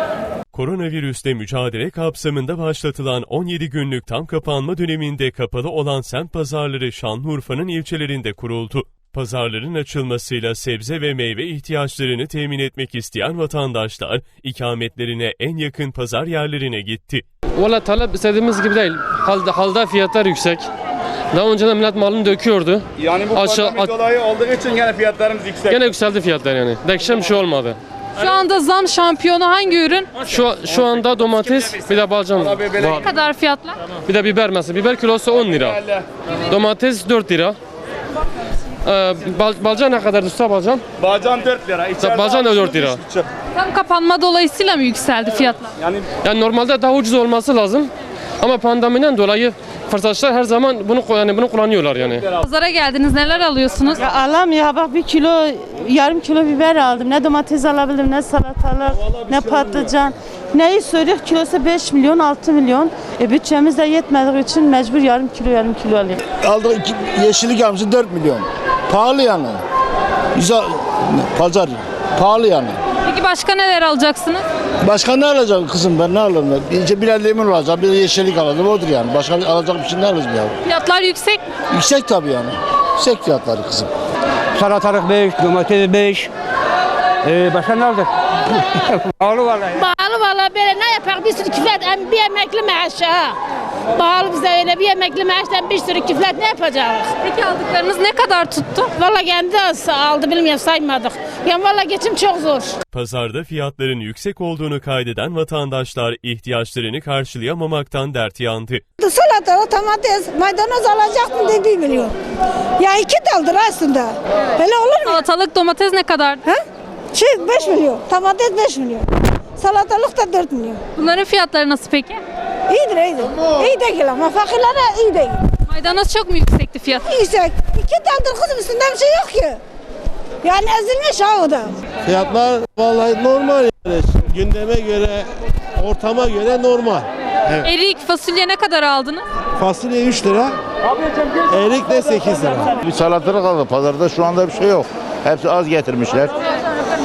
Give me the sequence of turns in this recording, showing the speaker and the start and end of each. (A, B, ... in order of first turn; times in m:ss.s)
0:00.5-0:17.2 A
0:17.6-0:20.7 B
0:21.3-0:23.9 B
0:23.0-0:25.8 C
0:25.7-0:27.8 B
0:28.2-0:30.3 D
0:30.3-0:33.1 B
0:32.4-0:33.0 C
0:32.8-0:33.8 D
0:34.0-0:35.8 B
0:36.5-0:37.6 B
0:38.8-0:40.8 B
0:41.0-0:43.2 C
0:42.0-0:43.0 B
0:43.6-0:45.7 D
0:46.2-0:47.9 B
0:48.4-0:52.3 B
0:52.4-0:54.0 D
0:53.9-1:06.2 E
1:06.4-1:09.6 F
1:10.4-1:12.8 F
1:13.1-1:14.4 D
1:14.8-1:20.6 F
1:20.7-1:21.4 D
1:21.7-1:23.9 F
1:24.6-1:26.3 G
1:27.2-1:29.7 G
1:29.8-1:33.4 H
1:34.0-1:37.1 H
1:37.2-1:38.9 D
1:39.0-1:42.8 H
1:42.9-1:48.8 A
1:49.0-1:52.1 I
1:52.8-1:55.3 I
1:55.0-1:56.4 D
1:57.1-2:00.8 I
2:01.0-2:02.2 D
2:02.7-2:05.4 I
2:05.7-2:07.1 D
2:07.1-2:09.6 I
2:10.4-2:11.7 I
2:12.0-2:17.7 J
2:17.6-2:19.3 D
2:19.6-2:20.6 J
2:21.4-2:22.7 J
2:22.8-2:26.4 F